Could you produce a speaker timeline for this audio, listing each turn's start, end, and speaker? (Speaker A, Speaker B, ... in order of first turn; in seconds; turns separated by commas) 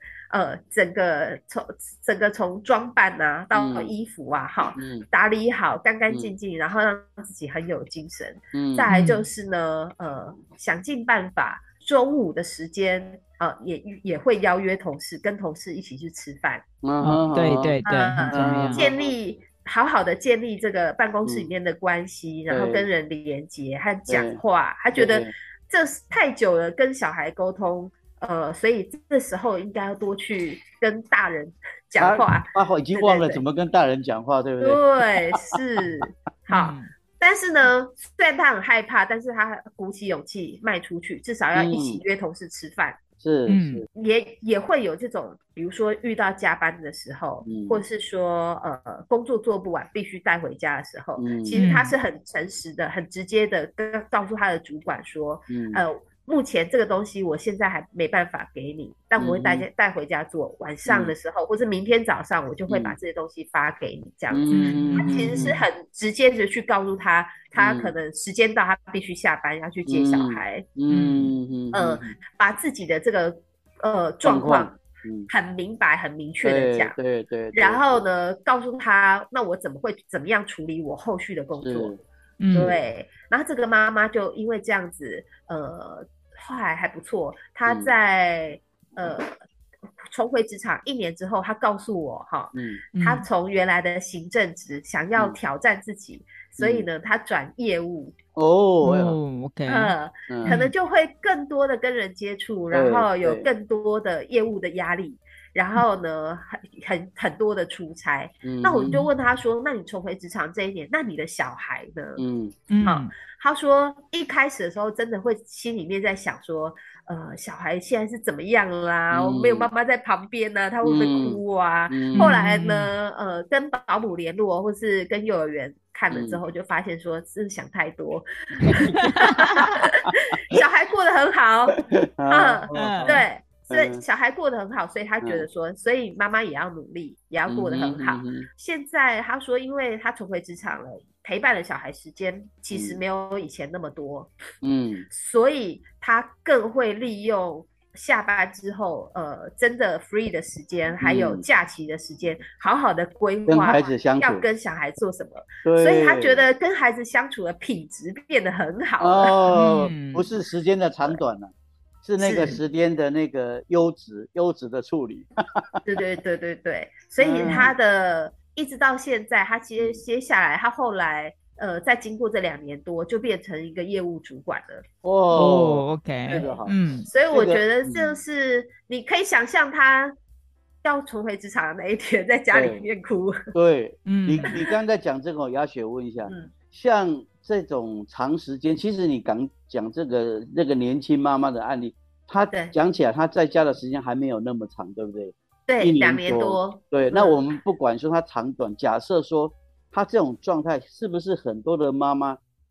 Speaker A: 0.3-16.6, Speaker B: 3.5-3.9, Speaker B: 4.8-5.1, Speaker B: 8.5-8.9, Speaker C: 8.9-9.2, Speaker B: 16.8-19.1, Speaker C: 17.0-18.8, Speaker A: 17.9-33.4, Speaker B: 22.5-22.9, Speaker B: 24.1-24.4, Speaker B: 24.9-25.3, Speaker B: 32.0-36.0, Speaker A: 34.6-43.0, Speaker C: 36.5-36.9, Speaker B: 41.5-42.0, Speaker B: 43.2-43.9, Speaker C: 43.5-43.8, Speaker A: 44.0-70.7, Speaker B: 47.5-47.8, Speaker B: 51.2-51.6, Speaker C: 51.5-52.0, Speaker B: 55.5-55.8, Speaker B: 59.2-59.7, Speaker B: 60.9-61.1, Speaker B: 62.7-63.0, Speaker B: 64.3-65.5, Speaker C: 64.5-65.6, Speaker B: 67.5-67.9, Speaker B: 69.9-72.2, Speaker C: 70.9-71.3, Speaker A: 71.7-74.8, Speaker B: 74.2-75.3, Speaker A: 75.3-77.0, Speaker B: 76.4-78.0, Speaker A: 77.5-82.0, Speaker B: 81.6-82.0, Speaker C: 82.4-82.8, Speaker B: 82.5-82.8, Speaker A: 82.5-89.4, Speaker B: 87.7-87.9, Speaker A: 90.1-98.2, Speaker B: 92.5-92.8, Speaker C: 93.0-93.3, Speaker B: 96.6-96.9, Speaker B: 98.4-99.2, Speaker C: 98.8-100.7, Speaker A: 99.7-112.2, Speaker B: 100.3-100.6, Speaker B: 102.7-103.5, Speaker B: 108.4-109.1, Speaker B: 112.2-112.5, Speaker C: 112.7-113.1, Speaker A: 112.8-131.8, Speaker B: 119.1-119.7, Speaker B: 120.8-122.4, Speaker C: 122.2-122.9, Speaker B: 126.1-126.4, Speaker B: 128.6-129.8, Speaker B: 131.8-134.0, Speaker A: 132.3-144.3, Speaker C: 132.7-133.2, Speaker B: 137.5-138.5, Speaker B: 142.7-143.0, Speaker B: 144.6-145.1, Speaker A: 145.1-159.4, Speaker B: 151.0-151.4, Speaker B: 153.5-154.4, Speaker B: 155.6-156.4, Speaker B: 159.0-161.5, Speaker C: 159.5-160.3, Speaker B: 162.0-165.7, Speaker A: 162.2-162.6, Speaker A: 165.9-174.8, Speaker B: 167.2-167.8, Speaker B: 175.0-176.8, Speaker C: 175.3-177.1, Speaker A: 177.1-180.2, Speaker B: 177.3-178.2, Speaker A: 180.8-183.5, Speaker B: 182.5-182.8, Speaker B: 183.5-202.4, Speaker C: 184.1-184.6, Speaker A: 186.3-186.5, Speaker A: 195.7-197.4